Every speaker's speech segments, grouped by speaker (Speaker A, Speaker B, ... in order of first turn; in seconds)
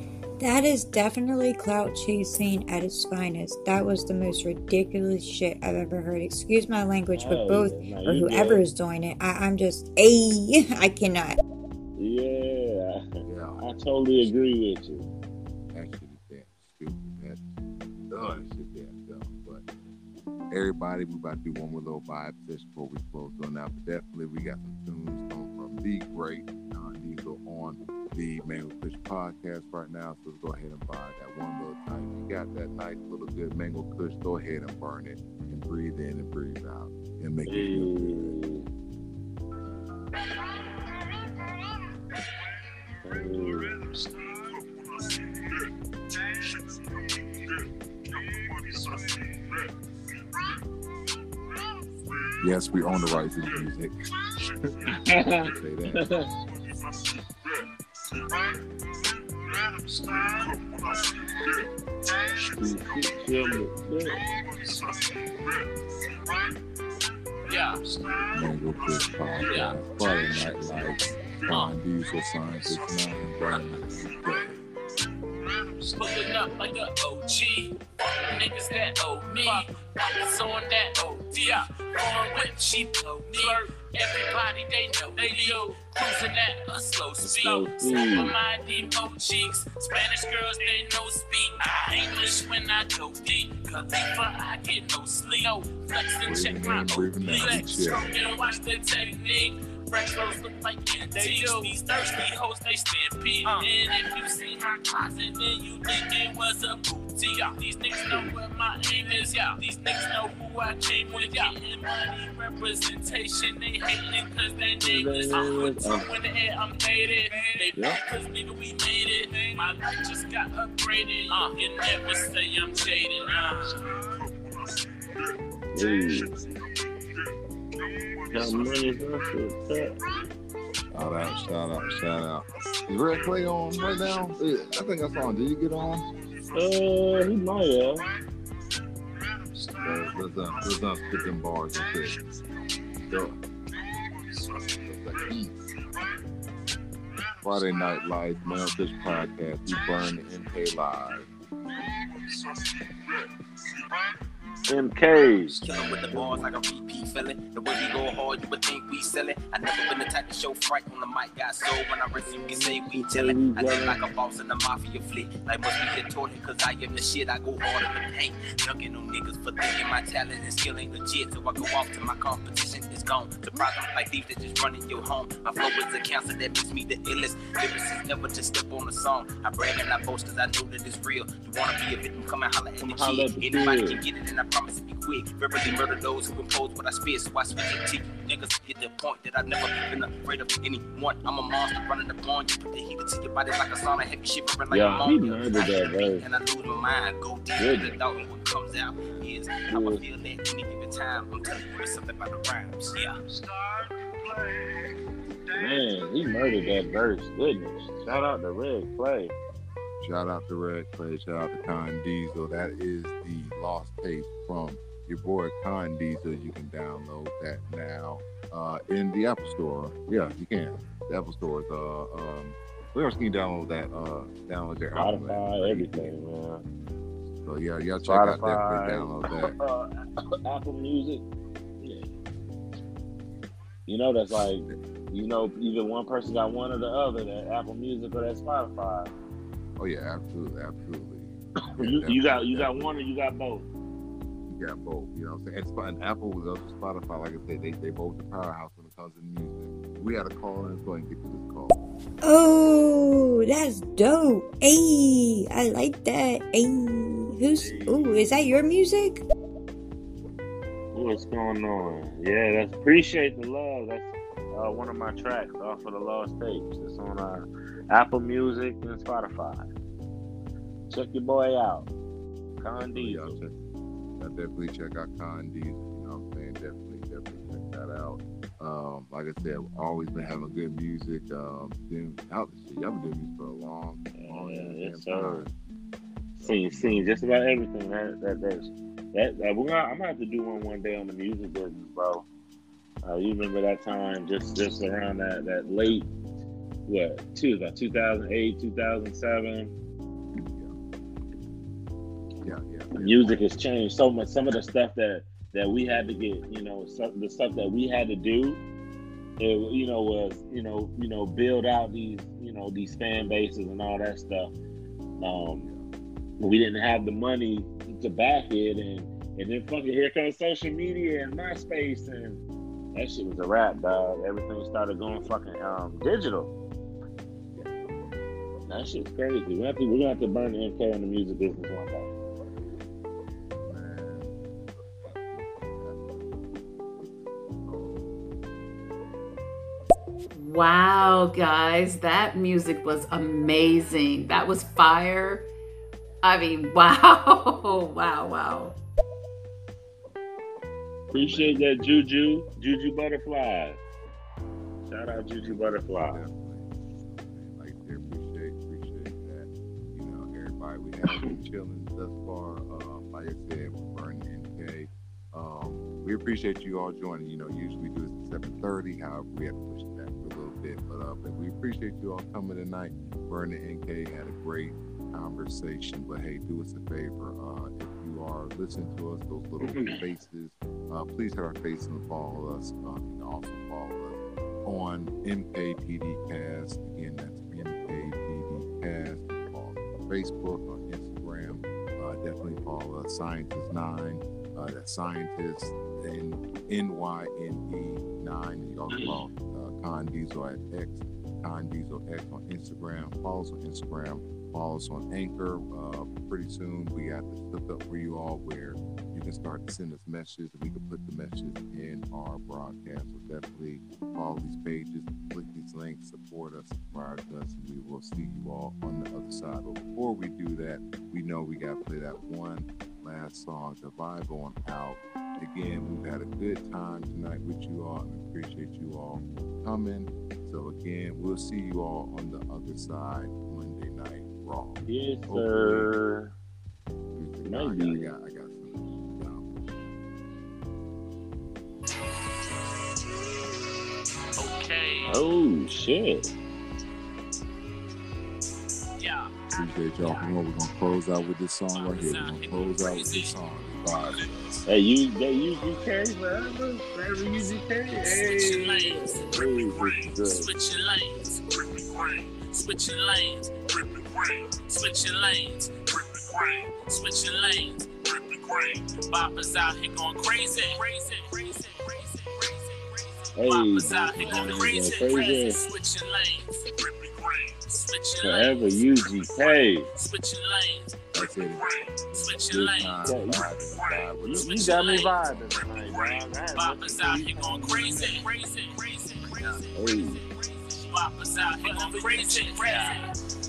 Speaker A: 0.4-11.4, 252.2-259.2
Speaker B: 7.2-8.6, 12.0-15.1, 37.5-38.7, 43.0-43.8, 54.9-56.3, 62.5-64.2, 87.2-88.3, 114.8-116.1, 125.7-126.3, 128.3-129.9, 136.5-138.0, 154.7-155.6, 156.1-156.4, 162.2-164.0, 182.8-184.0, 194.7-196.2, 197.6-198.0, 199.7-200.0, 205.6-209.3, 224.9-226.6, 228.0-229.9, 230.4-231.2, 231.8-232.1, 233.9-239.1, 241.7-243.7, 257.6-258.3, 260.9-269.7, 270.9-271.9, 272.6-273.4, 284.2-285.5, 286.4-292.2, 293.0-296.1, 296.9-299.7, 303.0-308.6, 309.4-314.5, 315.2-315.7, 316.4-322.4, 322.9-326.5, 328.7-332.1, 351.1-353.8, 354.9-356.2, 379.6-380.0, 398.9-399.2, 434.9-436.3, 437.4-438.1, 445.1-446.3, 454.7-460.5, 473.4-475.6, 478.2-479.9, 483.1-488.2, 489.7-490.2
Speaker C: 13.2-14.3, 15.7-17.4, 18.1-19.6, 20.5-38.3, 52.4-54.0, 54.5-56.1, 68.3-74.7, 96.2-98.1, 130.9-136.1, 139.7-142.2, 143.1-143.4, 144.7-145.7, 147.4-151.3, 210.0-226.1, 227.4-229.5, 234.3-234.8, 239.8-242.9, 244.5-251.8, 272.8-273.5, 274.2-285.5, 286.4-287.1, 300.4-300.7, 302.4-303.7, 327.5-328.2, 333.6-338.0, 351.1-352.0, 355.0-435.9, 437.1-439.5, 449.5-454.7, 473.9-474.7, 481.1-484.8
Speaker D: 67.5-67.8, 69.4-69.8, 76.0-123.8, 444.4-445.2, 449.0-450.3, 451.7-453.4, 453.9-454.3, 457.4-483.2, 483.7-493.1
Speaker E: 79.3-79.6, 82.0-83.7, 85.1-85.5, 87.1-87.6, 97.2-98.0, 101.1-102.1, 155.5-203.4, 491.6-493.0
Speaker F: 340.3-345.5, 346.2-348.8